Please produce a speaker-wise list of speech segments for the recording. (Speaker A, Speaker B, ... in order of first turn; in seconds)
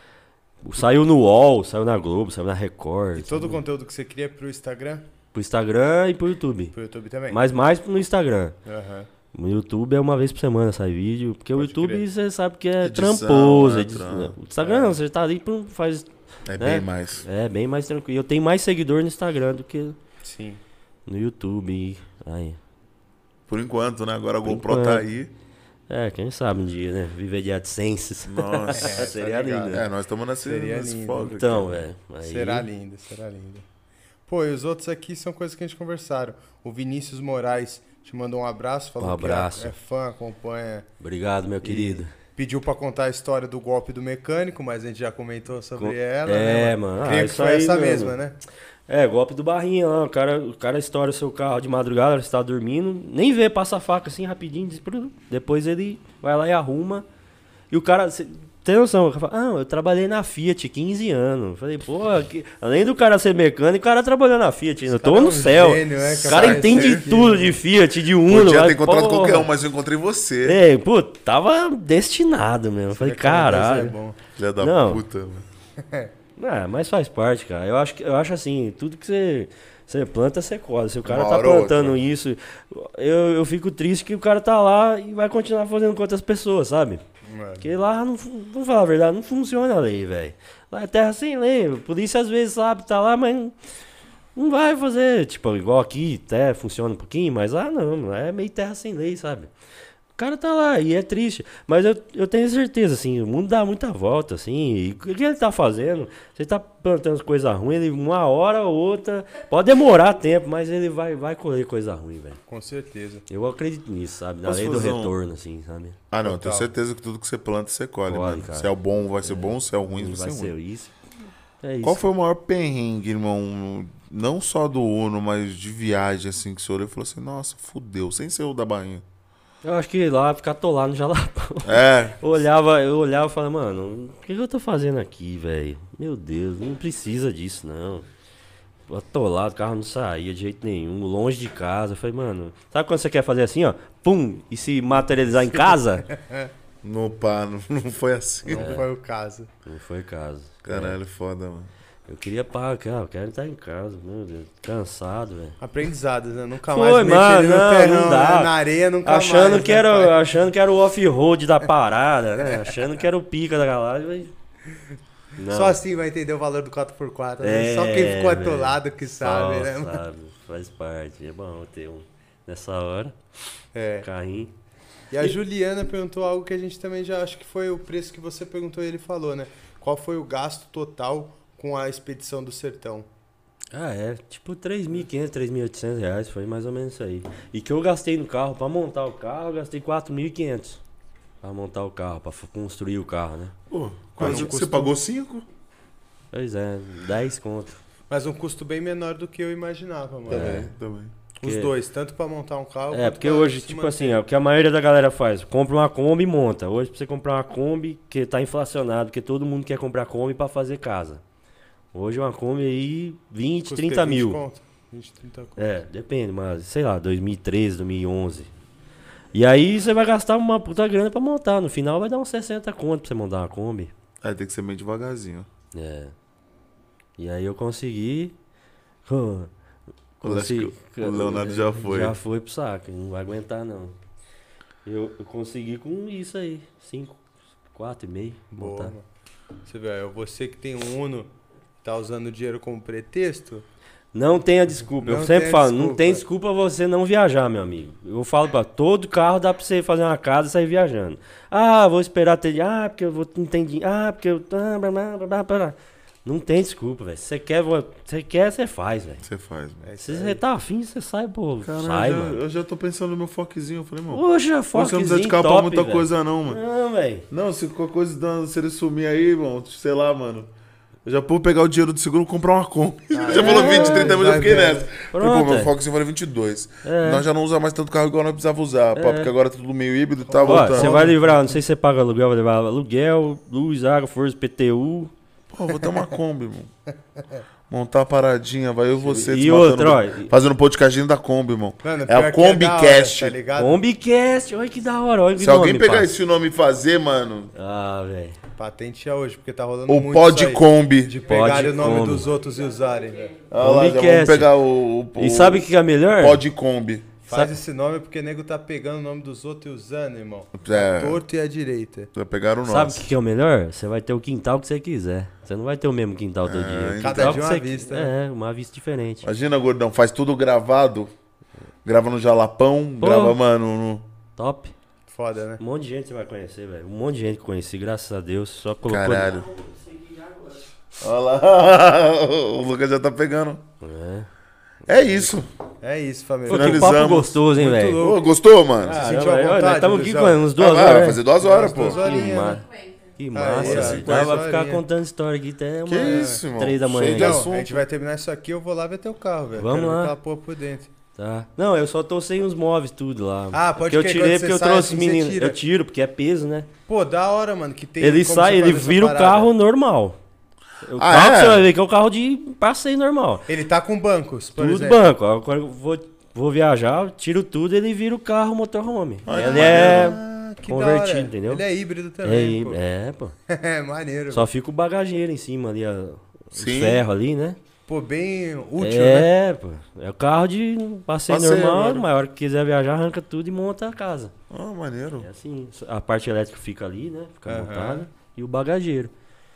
Speaker A: 0.6-3.6, 5.3-6.7, 7.3-8.6, 9.3-20.0, 21.1-22.6, 24.4-25.1, 25.9-29.8, 31.2-32.7, 39.0-39.7, 41.0-42.1, 45.8-48.2, 48.9-57.1, 57.7-69.5, 70.4-74.0, 74.6-75.0, 76.4-87.0, 87.6-93.5, 94.4-99.5, 100.2-112.4, 113.3-116.0, 118.1-118.7, 119.2-121.0, 121.6-122.1, 129.6-138.1, 138.9-146.1, 148.5-148.8, 149.7-151.0, 152.1-155.6, 156.7-158.5, 159.0-164.3, 165.4-165.8, 167.4-173.2, 174.0-174.5, 183.7-190.8, 191.4-193.6, 194.2-194.5, 196.3-197.8, 200.3-200.7, 201.4-201.7, 202.9-211.2, 211.9-214.4, 215.6-218.5, 219.3-223.9, 225.7-226.1, 227.2-228.3, 229.1-229.5, 230.2-234.0, 234.8-237.2, 237.7-238.9, 244.1-259.2, 260.0-262.4, 264.1-267.3, 273.3-274.5, 275.1-275.7, 276.8-277.2, 278.9-279.3, 280.4-285.1, 289.0-290.3, 293.6-296.1, 297.6-298.4, 301.3-302.3, 303.6-304.5, 305.1-306.4, 307.3-307.6, 312.6-319.3, 323.0-323.4, 324.4-324.7, 325.6-330.5, 333.8-334.3, 336.5-338.1, 338.8-341.2, 341.8-347.5, 349.6-350.1, 351.2-356.7, 358.0-360.2, 360.9-363.5, 364.6-371.6, 372.2-373.3, 374.3-377.6, 378.8-384.3, 385.2-389.1
Speaker B: 3.2-5.0, 6.7-7.4, 8.7-9.1, 11.6-12.1, 14.6-15.0, 20.2-20.6, 28.8-29.9, 30.4-31.4, 32.2-33.6, 34.3-40.9, 41.6-48.4, 65.0-67.6, 72.9-74.2, 75.8-76.1, 87.3-87.7, 112.5-113.2, 116.2-116.7, 146.1-146.5, 148.5-149.5, 155.6-160.3, 165.5-170.0, 173.7-174.1, 175.1-183.1, 194.2-195.0, 198.1-200.6, 201.4-204.2, 213.7-215.8, 238.5-239.0, 239.7-241.3, 241.8-243.7, 245.0-246.2, 259.8-260.4, 273.1-274.9, 280.3-281.5, 291.8-293.8, 298.6-303.4, 307.3-312.1, 317.0-318.1, 325.1-325.6, 335.8-336.9, 337.5-338.2, 338.8-340.5, 341.4-342.6, 343.4-344.8, 346.0-346.4, 347.2-350.9, 353.5-355.6, 356.9-359.5, 363.5-365.1, 369.3-372.8, 373.5-374.5, 377.9-379.3, 387.5-388.1
Speaker C: 12.8-14.3, 16.5-17.2, 23.5-25.3, 28.2-29.0, 29.7-31.8, 66.2-67.0, 68.3-70.6, 74.4-75.5, 81.0-82.0, 114.4-115.1, 116.1-120.5, 121.8-129.0, 131.6-132.2, 146.8-148.8, 150.7-151.7, 193.7-195.5, 200.3-201.1, 224.2-225.5, 230.2-232.2, 259.2-259.9, 261.6-266.6, 267.3-270.5, 271.1-281.1, 285.5-286.7, 287.7-293.4, 295.4-297.5, 299.9-301.1, 303.5-307.1, 310.6-311.2, 312.1-313.1, 316.4-317.5, 319.2-321.1, 321.9-324.1, 328.9-329.5, 331.0-333.6, 334.9-335.5, 336.5-337.4, 338.0-339.0, 340.6-342.2, 343.6-344.4, 345.9-347.8, 361.0-361.7, 369.2-370.2, 376.6-377.0, 381.3-382.1, 384.5-385.3